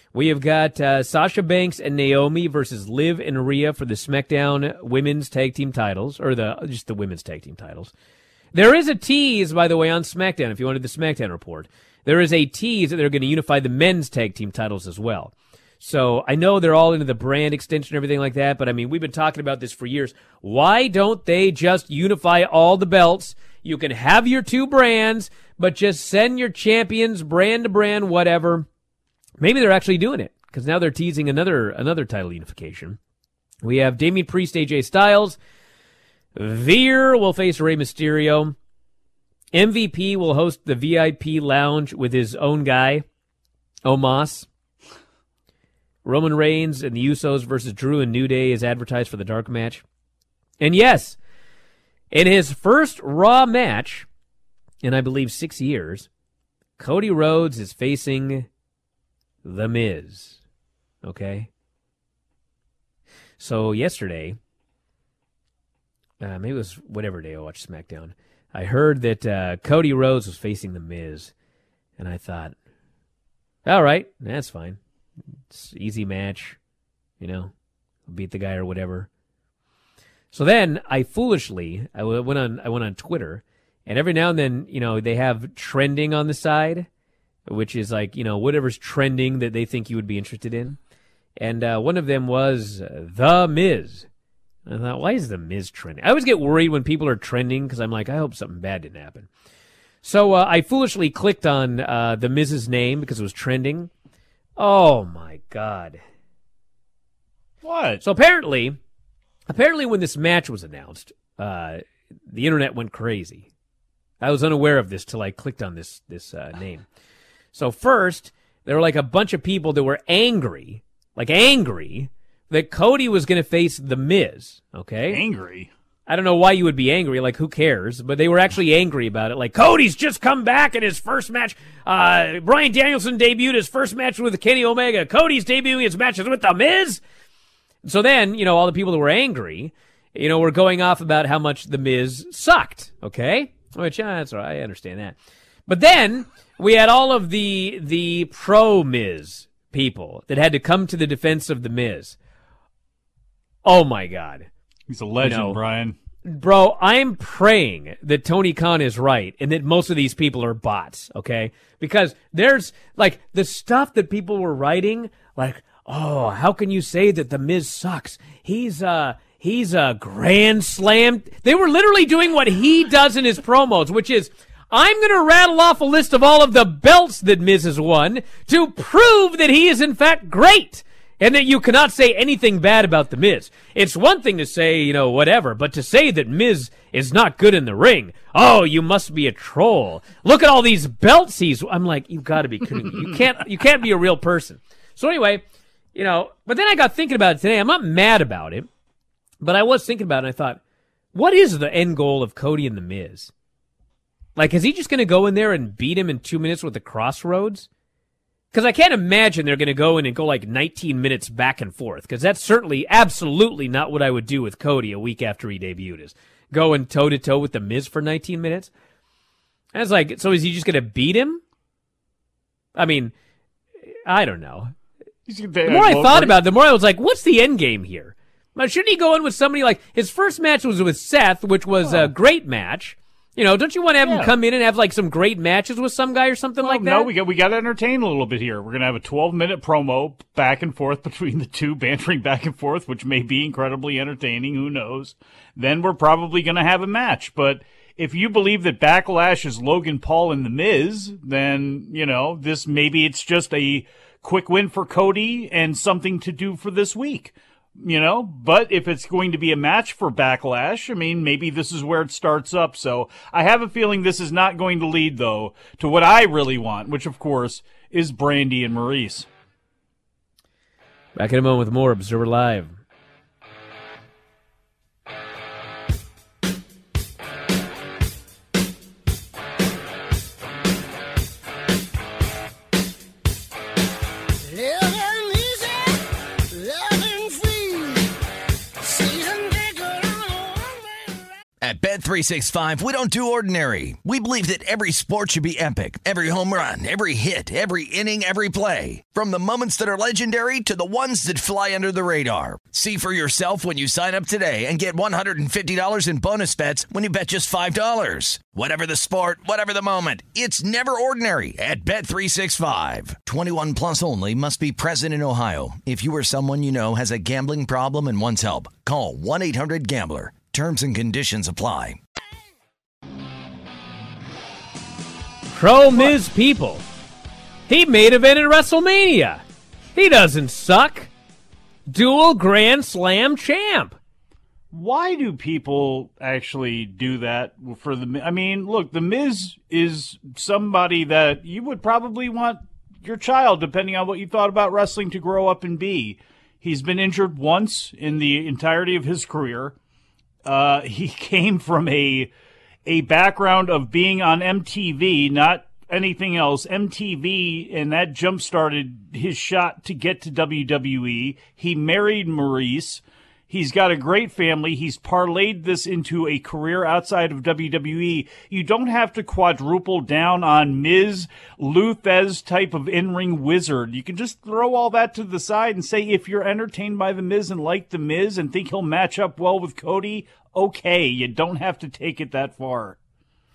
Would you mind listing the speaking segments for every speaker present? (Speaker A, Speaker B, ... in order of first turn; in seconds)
Speaker A: 0.1-7.9, 8.5-28.7, 29.4-33.0, 33.6-35.4, 36.3-38.5, 39.5-43.0, 43.8-44.5, 46.0-49.8, 50.6-51.2, 52.1-54.1, 54.8-56.1, 56.8-58.5, 59.4-60.4, 61.0-61.5, 63.4-64.4, 66.2-71.3, 72.0-72.5, 73.6-74.8, 75.5-76.6, 77.2-77.5, 78.1-79.1, 80.3-86.9, 87.5-90.8, 91.4-94.0, 94.7-99.3, 100.0-103.9, 104.6-106.0, 108.0-108.8, 109.5-113.5, 114.2-116.8, 117.5-125.2, 126.1-137.0, 137.8-145.1, 145.7-152.2, 153.6-154.5, 155.2-155.6, 156.2-195.4, 195.9-198.7, 199.4-200.6, 201.1-203.3, 204.3-207.7, 208.5-218.7, 219.7-221.4, 222.7-223.1, 224.0-224.7, 225.6-237.1, 271.1-272.7, 325.5-326.8, 327.7-329.4, 329.9-331.1, 331.9-333.9
Speaker B: 107.6-108.0, 125.1-125.7, 154.9-155.9, 225.2-226.3, 231.8-232.1, 234.0-234.3, 236.6-269.3, 334.7-349.7, 350.4-352.3, 352.9-383.0
Speaker C: 291.6-322.0